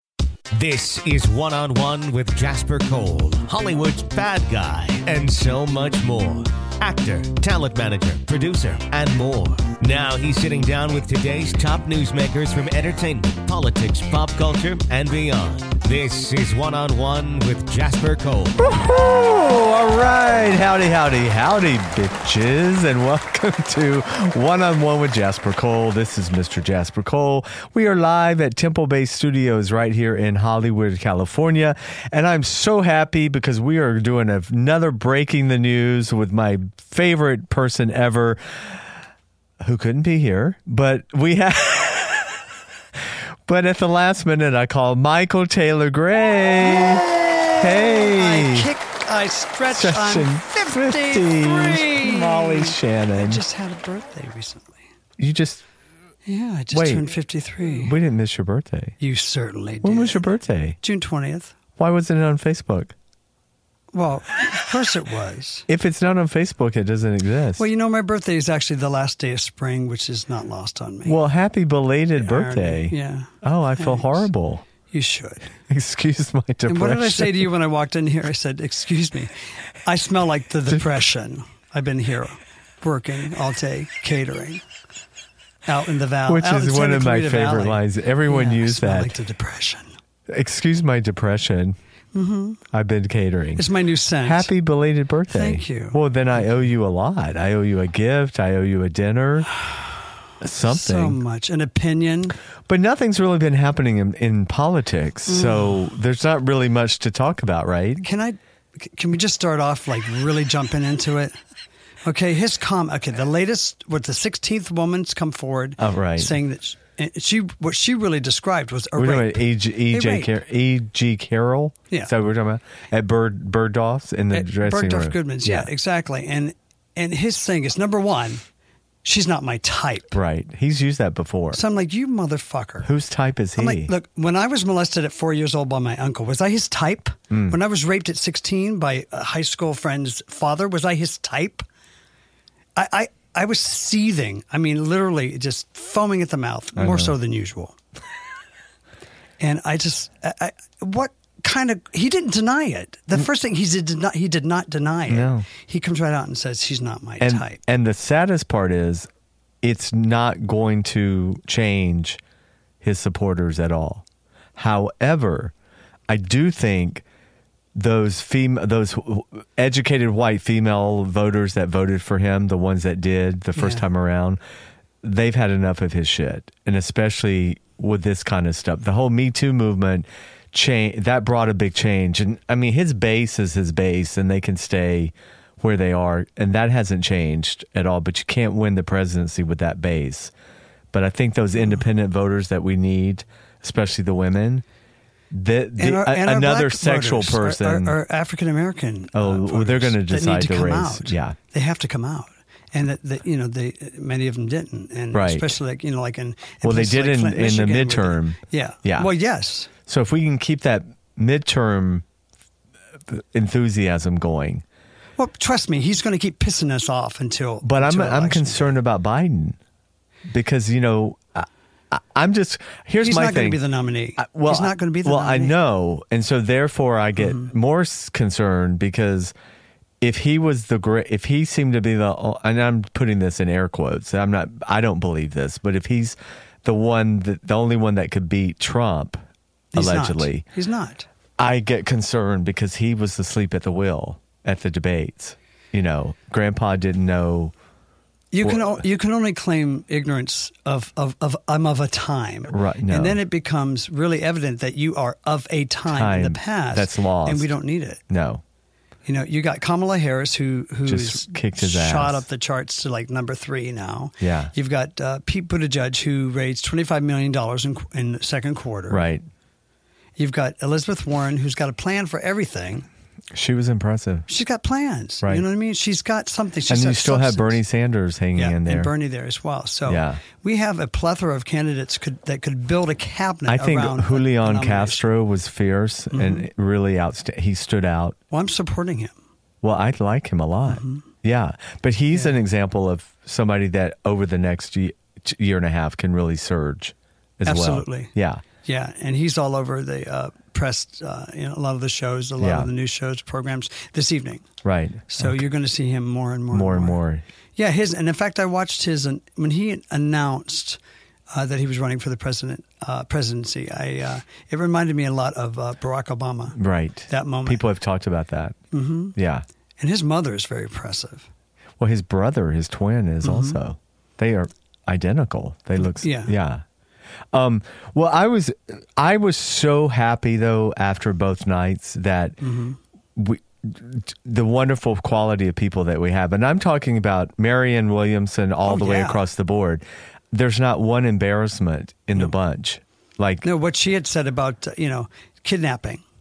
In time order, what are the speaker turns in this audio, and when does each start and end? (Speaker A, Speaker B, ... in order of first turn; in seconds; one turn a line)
Speaker A: 0.5-18.6
Speaker B: 18.6-38.4
Speaker B: 39.6-42.4
Speaker B: 43.5-48.7
Speaker C: 46.7-54.8
Speaker B: 49.7-53.4
Speaker B: 55.2-55.6
Speaker C: 56.2-58.0
Speaker B: 56.7-57.1
Speaker B: 57.8-58.9
Speaker C: 59.0-60.3
Speaker B: 59.8-60.8
Speaker C: 60.8-61.5
Speaker B: 61.8-62.9
Speaker C: 63.9-65.7
Speaker B: 65.7-67.6
Speaker C: 67.6-71.2
Speaker B: 71.0-74.6
Speaker C: 72.2-74.3
Speaker C: 74.9-75.5
Speaker B: 75.7-77.5
Speaker C: 76.7-79.3
Speaker C: 79.8-84.6
Speaker C: 85.7-89.9
Speaker B: 86.2-89.1
Speaker B: 90.3-91.8
Speaker C: 92.1-92.6
Speaker B: 92.7-93.6
Speaker C: 93.5-94.5
Speaker B: 94.2-99.5
Speaker C: 95.3-96.7
Speaker B: 100.4-101.2
Speaker C: 100.7-102.4
Speaker B: 102.7-108.1
Speaker C: 105.3-105.8
Speaker C: 108.0-111.3
Speaker C: 112.0-120.3
Speaker B: 115.8-116.3
Speaker B: 119.0-125.7
Speaker C: 124.3-128.4
Speaker C: 129.0-130.2
Speaker B: 130.1-131.6
Speaker C: 131.5-132.9
Speaker B: 132.8-133.9
Speaker C: 133.6-141.6
Speaker B: 137.3-137.6
Speaker C: 142.8-147.8
Speaker B: 146.8-147.1
Speaker C: 149.4-157.6
Speaker B: 155.1-155.5
Speaker B: 157.2-159.1
Speaker B: 159.6-162.2
Speaker B: 162.8-164.0
Speaker B: 164.6-165.5
Speaker B: 166.1-167.0
Speaker B: 167.7-174.4
Speaker C: 173.5-173.9
Speaker B: 175.0-190.3
Speaker B: 190.9-194.6
Speaker B: 195.3-197.9
Speaker C: 195.8-209.7
Speaker B: 199.1-201.4
Speaker B: 205.1-205.5
Speaker B: 206.6-209.1
Speaker B: 209.8-212.0
Speaker B: 213.1-214.6
Speaker C: 215.2-218.8
Speaker B: 217.6-219.6
Speaker B: 220.3-223.6
Speaker C: 223.0-225.6
Speaker B: 224.2-229.3
Speaker C: 227.2-227.5
Speaker B: 230.0-239.2
Speaker C: 239.7-241.1
Speaker B: 239.7-240.4
Speaker B: 241.4-247.5
Speaker C: 248.3-258.0
Speaker B: 248.4-248.8
Speaker B: 252.5-253.2
Speaker B: 255.8-257.5
Speaker B: 258.1-258.4
Speaker C: 259.1-269.0
Speaker B: 260.9-262.2
Speaker B: 264.2-264.5
Speaker B: 268.9-269.2
Speaker C: 270.2-272.9
Speaker B: 273.3-274.3
Speaker C: 274.3-277.6
Speaker B: 276.7-278.9
Speaker C: 278.4-285.0
Speaker B: 279.9-280.2
Speaker B: 283.5-288.1
Speaker C: 286.1-286.5
Speaker C: 288.3-289.1
Speaker B: 289.6-298.4
Speaker C: 290.7-291.0
Speaker C: 297.4-298.1
Speaker C: 298.6-304.4
Speaker B: 302.4-302.7
Speaker B: 304.6-305.4
Speaker C: 305.1-307.0
Speaker B: 306.5-307.2
Speaker C: 307.6-310.8
Speaker C: 311.3-316.6
Speaker B: 316.6-318.6
Speaker C: 317.1-317.6
Speaker C: 318.7-319.1
Speaker B: 319.1-319.4
Speaker C: 319.8-321.3
Speaker B: 321.8-326.6
Speaker C: 323.2-323.6
Speaker C: 325.8-326.3
Speaker B: 327.3-332.4
Speaker C: 332.4-332.8
Speaker B: 333.1-343.4
Speaker C: 338.6-339.2
Speaker C: 343.4-346.0